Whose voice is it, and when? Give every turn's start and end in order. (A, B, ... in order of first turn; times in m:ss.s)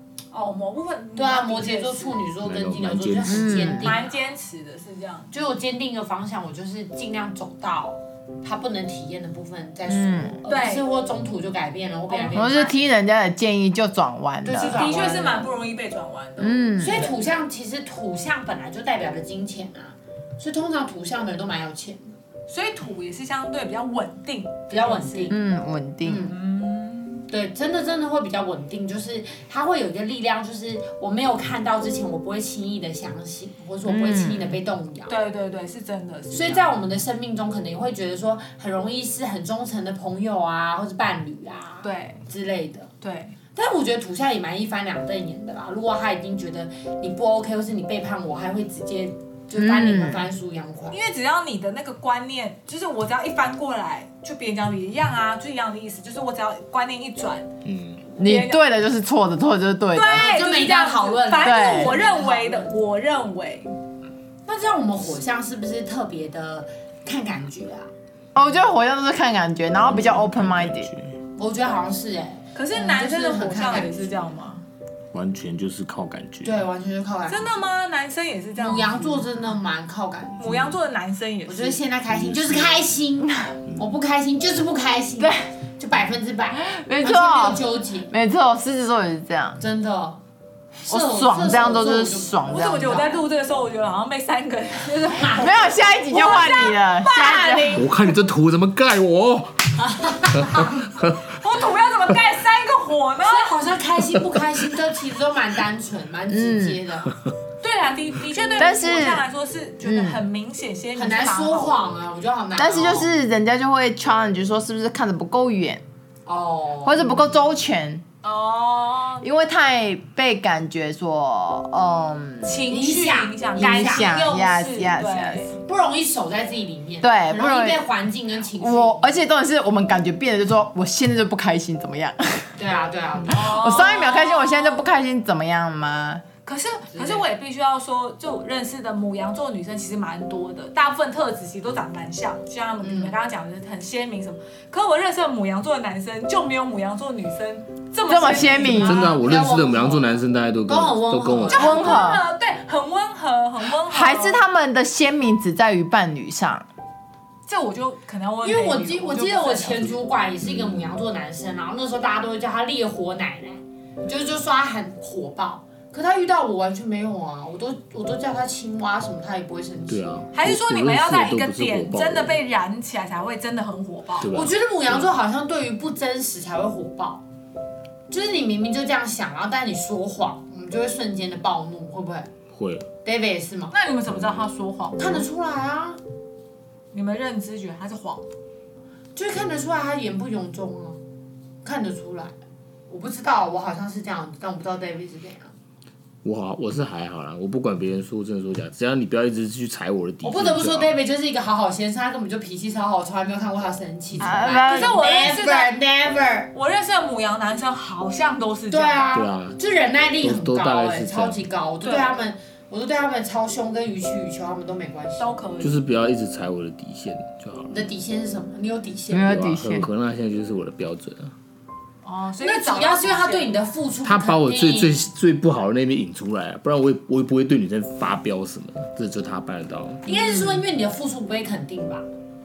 0:00.3-0:02.2 A
0:01.2-0:04.1 B
0:02.4-0:04.0 C
0:03.2-0:04.0 D
0:03.8-0:05.4 A
0:05.3-0:12.7 B
0:09.9-0:10.4 D
0:10.5-0:10.8 A
0:12.1-0:12.6 A
0:12.3-0:14.8 D
0:14.4-0:15.5 B
0:14.7-0:17.1 A
0:16.4-0:17.1 D
0:16.8-0:22.2 B
0:22.5-0:25.3 A
0:24.7-0:25.4 B
0:25.3-0:26.3 D
0:26.0-0:26.4 B
0:26.3-0:27.3 A
0:27.3-0:35.1 B
0:33.9-0:34.6 D
0:35.1-0:36.7 A
0:36.3-0:42.9 B
0:41.8-0:42.2 A
0:43.0-0:43.4 A
0:43.6-0:51.0 B
0:49.6-0:50.3 D
0:50.9-0:57.5 A
0:57.6-0:58.0 C
0:58.1-0:58.6 A
0:58.2-1:00.3 D
0:59.9-1:03.8 A
1:00.1-1:02.7 B
1:01.4-1:02.0 D
1:04.5-1:07.9 B
1:08.4-1:10.9 D
1:09.8-1:11.2 C
1:11.4-1:14.2 B
1:12.6-1:14.6 A
1:15.1-1:16.6 C
1:16.4-1:17.6 B
1:17.3-1:19.2 A
1:18.6-1:20.4 B
1:20.4-1:21.8 A
1:20.4-1:20.8 C
1:21.5-1:28.1 B
1:22.1-1:23.0 C
1:23.3-1:23.5 D
1:25.2-1:25.4 D
1:26.6-1:29.6 D
1:29.6-1:30.2 B
1:30.8-1:33.2 B
1:30.9-1:33.0 D
1:32.5-1:38.1 A
1:35.2-1:35.4 B
1:35.4-1:37.9 D
1:37.7-1:39.8 C
1:39.8-1:40.8 B
1:40.3-1:41.2 C
1:41.3-1:43.6 A
1:43.2-1:47.1 B
1:46.3-1:46.8 D
1:47.6-1:51.8 A
1:48.6-1:49.2 D
1:49.8-1:50.2 D
1:51.0-1:53.1 B
1:52.6-1:55.8 D
1:56.3-1:57.3 B
1:56.8-1:58.0 D
1:58.2-1:59.3 A
1:59.2-2:02.7 D
2:02.4-2:05.5 A
2:02.7-2:04.3 B
2:03.6-2:05.5 D
2:05.5-2:09.1 B
2:07.0-2:07.8 D
2:08.6-2:12.6 D
2:12.6-2:13.4 B
2:13.3-2:14.8 A
2:13.3-2:16.2 D
2:16.4-2:29.2 A
2:16.9-2:17.2 B
2:22.8-2:23.2 B
2:28.1-2:29.0 D
2:28.7-2:31.8 C
2:29.0-2:32.0 B
2:31.5-2:34.4 A
2:31.5-2:32.2 D
2:33.8-2:36.7 D
2:37.5-2:40.0 A
2:38.4-2:50.2 B
2:40.4-2:41.0 C
2:49.9-2:52.4 C
2:50.3-2:54.3 A
2:54.2-2:55.1 C
2:54.3-2:57.2 B
2:58.1-3:02.3 B
3:02.5-3:02.9 C
3:03.0-3:03.7 B
3:03.7-3:05.3 A
3:04.1-3:04.4 C
3:05.0-3:06.0 B
3:06.9-3:08.3 A
3:09.2-3:11.0 B
3:11.6-3:12.4 B
3:12.9-3:15.5 B
3:16.2-3:20.9 C
3:20.2-3:26.5 B
3:24.2-3:24.9 D
3:24.6-3:25.8 A
3:26.5-3:29.1 A
3:28.7-3:35.4 B
3:29.1-3:29.6 C
3:30.2-3:31.4 C
3:31.8-3:32.1 A
3:35.2-3:35.8 A
3:35.6-3:37.9 C
3:37.7-3:39.4 B
3:39.1-3:39.9 D
3:39.1-3:41.3 C
3:42.0-3:43.5 A
3:42.4-3:45.1 B
3:44.0-3:50.1 C
3:50.0-3:52.0 B